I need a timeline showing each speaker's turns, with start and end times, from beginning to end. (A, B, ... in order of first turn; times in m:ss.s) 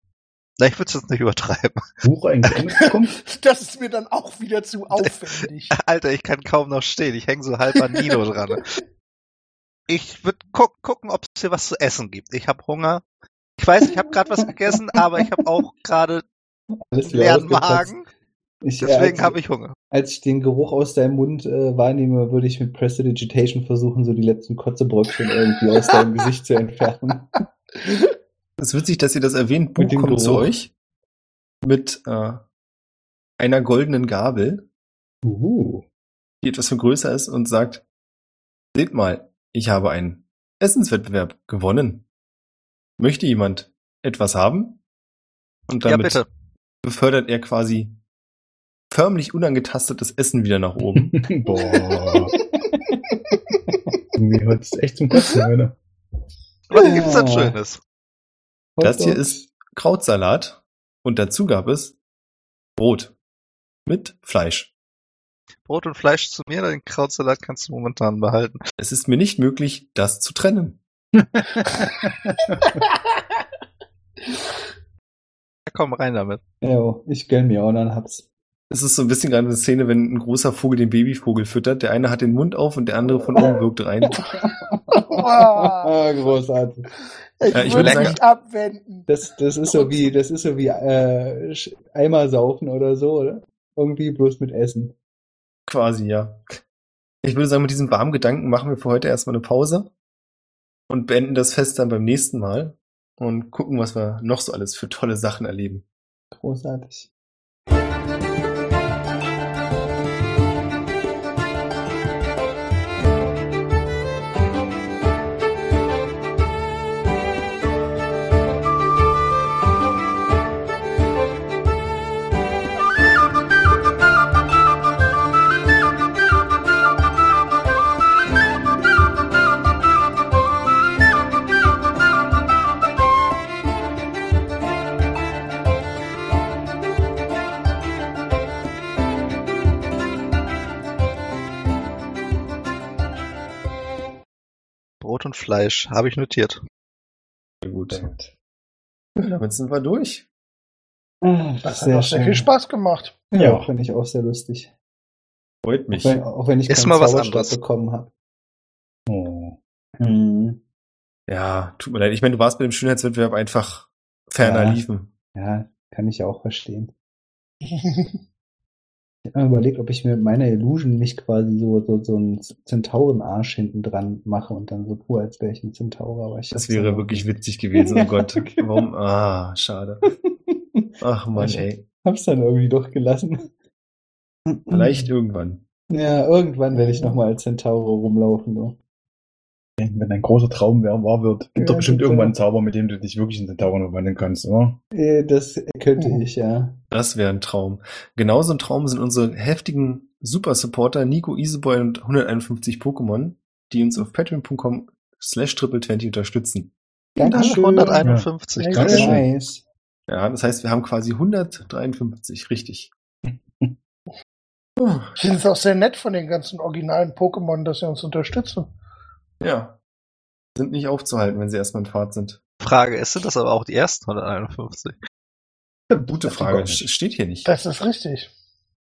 0:00.6-0:01.8 A
0:02.0-0:03.2 B
0:02.8-0:05.7 C
0:05.7-0:08.7 A
0:09.9-0:13.0 A
0:13.6-0:16.2 A
0:16.9-0:17.9 D
0:17.0-0:18.0 A
0:18.6-0:19.4 D
0:18.8-0:19.7 A
0:19.9-0:27.4 D
0:25.7-0:26.0 C
0:27.8-0:28.1 C
0:28.6-0:30.7 E
0:29.8-0:30.5 D
0:31.6-0:32.4 E
0:33.4-0:34.6 E
0:35.2-0:35.8 D
0:36.4-0:37.8 E
0:38.7-0:42.0 E
0:43.0-0:44.8 E
0:45.7-0:46.2 E
0:45.8-0:46.3 A
0:46.8-0:48.0 E
0:48.9-0:51.2 E
0:51.1-0:52.3 B
0:51.9-0:53.8 D
0:52.4-0:52.6 C
0:53.3-0:53.9 C
0:54.1-0:55.8 B
0:56.7-0:57.8 A
0:56.8-0:57.6 D
0:58.8-0:59.4 D
0:58.8-1:02.0 E
1:02.8-1:03.1 E
1:03.8-1:04.7 E
1:05.6-1:08.6 A
1:08.8-1:10.8 E
1:11.6-1:11.9 C
1:11.8-1:12.6 B
1:12.6-1:13.4 C
1:15.7-1:16.4 A
1:16.6-1:18.2 D
1:18.7-1:24.2 E
1:24.0-1:26.9 D
1:24.9-1:26.0 C
1:27.4-1:29.1 C
1:27.5-1:28.2 E
1:27.5-1:27.9 D
1:27.6-1:28.1 A
1:29.1-1:34.9 D
1:29.7-1:30.1 C
1:35.7-1:36.4 E
1:37.2-1:39.9 E
1:40.9-1:45.8 E
1:46.3-1:47.1 D
2:25.0-2:26.6 A
2:27.6-2:28.1 E
2:27.9-2:28.3 B
2:29.2-2:30.2 E
2:31.2-2:32.5 D
2:31.6-2:33.3 C
2:33.3-2:34.7 D
2:33.4-2:33.6 B
2:35.6-2:36.2 E
2:35.9-2:38.1 D
2:36.7-2:37.5 A
2:39.1-2:39.6 B
2:40.0-2:40.6 D
2:41.3-2:45.1 E
2:44.4-2:46.9 D
2:47.7-2:48.2 C
2:49.2-2:58.9 D
2:56.5-3:00.1 E
3:00.5-3:03.5 D
3:01.0-3:01.8 E
3:04.5-3:05.0 D
3:04.7-3:05.6 E
3:05.9-3:08.8 D
3:09.8-3:14.8 B
3:11.6-3:12.3 D
3:14.9-3:16.8 D
3:16.9-3:26.7 E
3:27.2-3:28.1 D
3:27.2-3:27.6 E
3:27.3-3:29.2 A
3:27.3-3:29.2 B
3:28.6-3:29.1 C
3:28.8-3:29.6 D
3:30.1-3:32.9 E
3:33.2-3:33.8 B
3:34.8-3:35.2 E
3:35.2-3:38.7 C
3:39.4-3:39.8 E
3:40.6-3:42.4 E
3:42.6-3:44.9 A
3:45.9-3:46.9 B
3:46.1-3:47.5 E
3:47.4-3:48.3 C